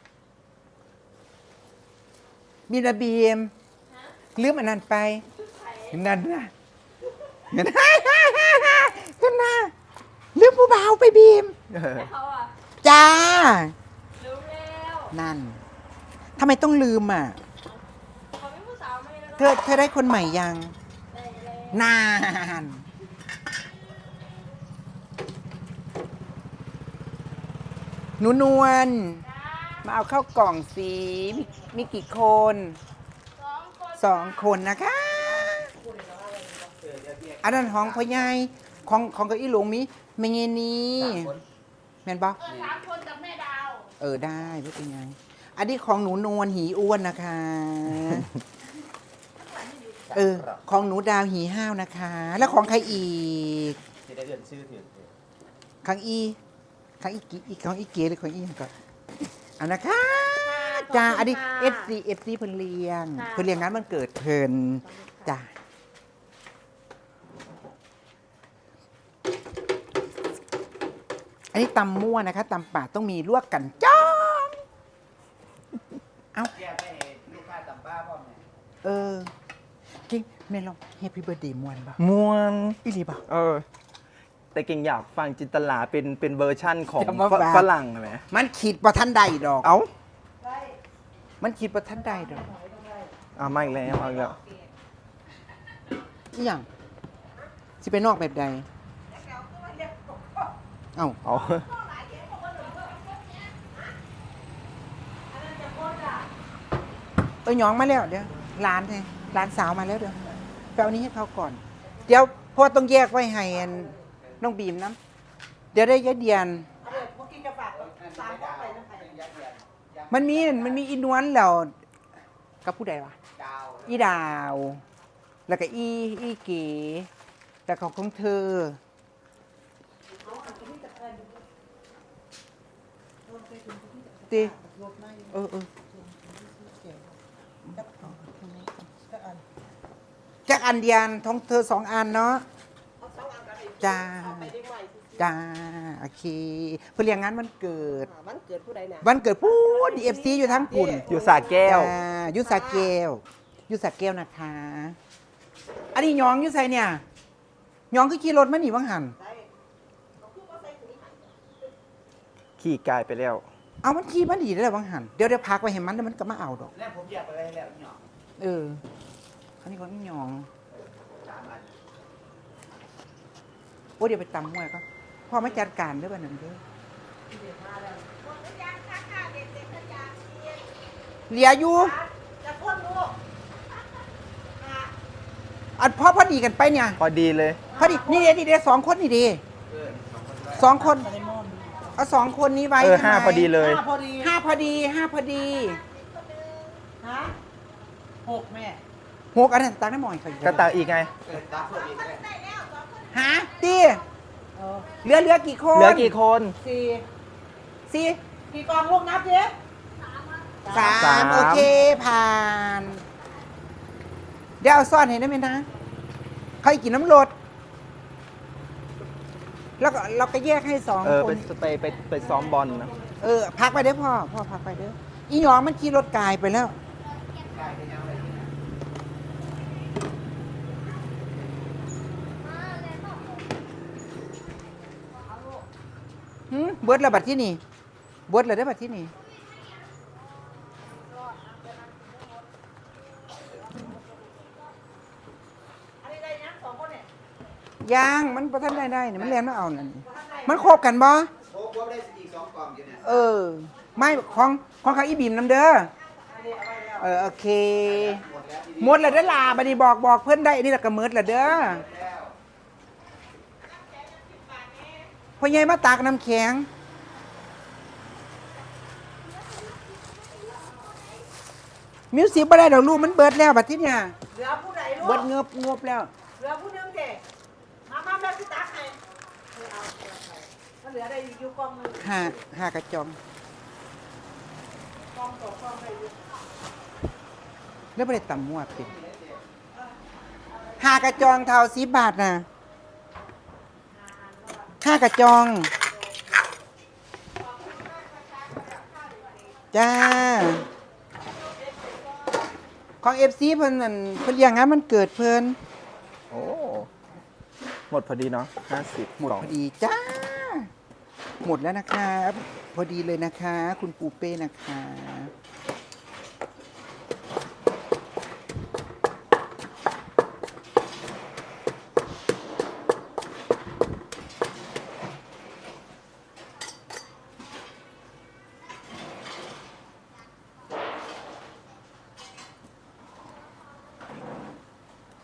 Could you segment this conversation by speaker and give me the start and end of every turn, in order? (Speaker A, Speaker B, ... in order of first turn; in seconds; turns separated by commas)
Speaker A: 2.7-3.5, Speaker A: 4.3-5.2, Speaker B: 5.5-5.8, Speaker A: 5.9-6.5, Speaker A: 7.5-9.7, Speaker A: 10.3-11.5, Speaker C: 11.7-12.2, Speaker B: 12.1-12.5, Speaker A: 12.8-13.8, Speaker B: 14.2-15.1, Speaker A: 15.1-15.6, Speaker A: 16.4-17.4, Speaker B: 18.4-19.4, Speaker A: 19.3-20.8, Speaker B: 21.1-21.7, Speaker A: 21.7-22.8, Speaker A: 28.2-29.3, Speaker A: 29.8-32.8, Speaker A: 33.9-35.7, Speaker D: 36.0-36.7, Speaker A: 37.4-41.4, Speaker A: 42.0-42.6, Speaker D: 42.7-43.8, Speaker A: 44.0-48.3, Speaker A: 50.1-53.8, Speaker E: 54.3-54.9, Speaker A: 55.8-56.4, Speaker A: 57.0-58.7, Speaker A: 59.6-65.5, Speaker D: 60.6-61.7, Speaker A: 71.5-74.6, Speaker A: 76.3-76.7, Speaker E: 77.3-78.2, Speaker A: 78.8-79.3, Speaker A: 80.1-82.0, Speaker C: 82.0-83.7, Speaker A: 82.8-83.2, Speaker C: 84.5-88.2, Speaker A: 86.9-87.7, Speaker A: 88.3-89.7, Speaker C: 89.6-89.9, Speaker A: 91.4-92.5, Speaker D: 92.4-93.1, Speaker C: 93.3-94.4, Speaker A: 96.3-96.7, Speaker A: 97.8-98.7, Speaker D: 99.1-100.3, Speaker A: 100.9-101.2, Speaker C: 101.2-101.7, Speaker D: 101.8-103.0, Speaker D: 105.3-106.3, Speaker A: 107.4-110.2, Speaker A: 110.8-115.0, Speaker A: 115.7-116.7, Speaker D: 116.8-119.4, Speaker A: 120.1-121.7, Speaker A: 122.6-123.2, Speaker A: 123.8-124.8, Speaker A: 125.5-127.1, Speaker A: 127.7-128.8, Speaker D: 130.2-131.3, Speaker D: 133.3-135.2, Speaker A: 134.3-134.6, Speaker A: 135.3-135.7, Speaker D: 136.1-136.9, Speaker A: 137.8-138.9, Speaker D: 139.1-139.4, Speaker A: 140.5-142.4, Speaker D: 143.0-143.8, Speaker A: 143.8-144.6, Speaker D: 144.3-145.1, Speaker A: 145.2-148.1, Speaker D: 148.1-149.0, Speaker A: 149.0-151.1, Speaker D: 150.0-151.3, Speaker C: 151.1-151.9, Speaker A: 151.6-155.0, Speaker A: 155.9-157.0, Speaker A: 157.9-159.2, Speaker D: 160.2-161.2, Speaker C: 162.6-163.5, Speaker A: 163.8-166.8, Speaker E: 167.1-167.8, Speaker A: 168.4-168.8, Speaker A: 169.6-170.5, Speaker A: 174.0-176.6, Speaker D: 177.3-180.6, Speaker A: 181.3-182.0, Speaker D: 181.8-183.2, Speaker D: 184.6-184.9, Speaker A: 185.8-187.0, Speaker C: 187.0-187.6, Speaker A: 187.7-189.4, Speaker A: 190.5-191.1, Speaker D: 190.8-191.9, Speaker A: 191.9-193.6, Speaker C: 192.8-193.9, Speaker D: 193.6-194.2, Speaker A: 194.2-195.8, Speaker B: 196.0-196.7, Speaker D: 197.0-197.3, Speaker D: 198.2-198.8, Speaker A: 199.3-200.7, Speaker C: 200.4-201.2, Speaker E: 201.5-201.8, Speaker D: 201.6-202.9, Speaker A: 203.1-204.0, Speaker D: 204.6-204.9, Speaker A: 205.0-206.2, Speaker C: 205.7-206.6, Speaker D: 206.6-207.0, Speaker A: 207.9-208.2, Speaker D: 208.5-209.6, Speaker A: 210.7-213.0, Speaker C: 210.9-211.8, Speaker A: 214.6-215.7, Speaker A: 216.6-217.3, Speaker A: 219.8-221.5, Speaker C: 221.0-223.0, Speaker A: 223.2-226.8, Speaker E: 227.9-228.2, Speaker B: 232.6-233.2, Speaker A: 236.5-237.6, Speaker A: 238.3-239.1, Speaker D: 246.0-247.1, Speaker A: 247.8-251.3, Speaker D: 250.1-250.6, Speaker E: 251.7-252.8, Speaker A: 252.9-255.9, Speaker D: 256.2-257.0, Speaker A: 257.0-261.9, Speaker D: 263.8-265.1, Speaker A: 265.4-266.7, Speaker A: 272.1-274.2, Speaker D: 274.3-275.2, Speaker A: 275.0-276.1, Speaker D: 276.4-277.2, Speaker D: 277.9-279.0, Speaker D: 279.5-282.0, Speaker A: 282.0-283.2, Speaker D: 285.1-286.1, Speaker A: 287.9-289.0, Speaker A: 290.8-292.4, Speaker D: 294.2-294.6, Speaker A: 294.8-295.7, Speaker D: 297.9-299.5, Speaker A: 299.7-300.7, Speaker A: 303.0-305.6, Speaker C: 306.3-306.9, Speaker C: 307.9-309.5, Speaker A: 309.2-310.7, Speaker A: 311.4-315.3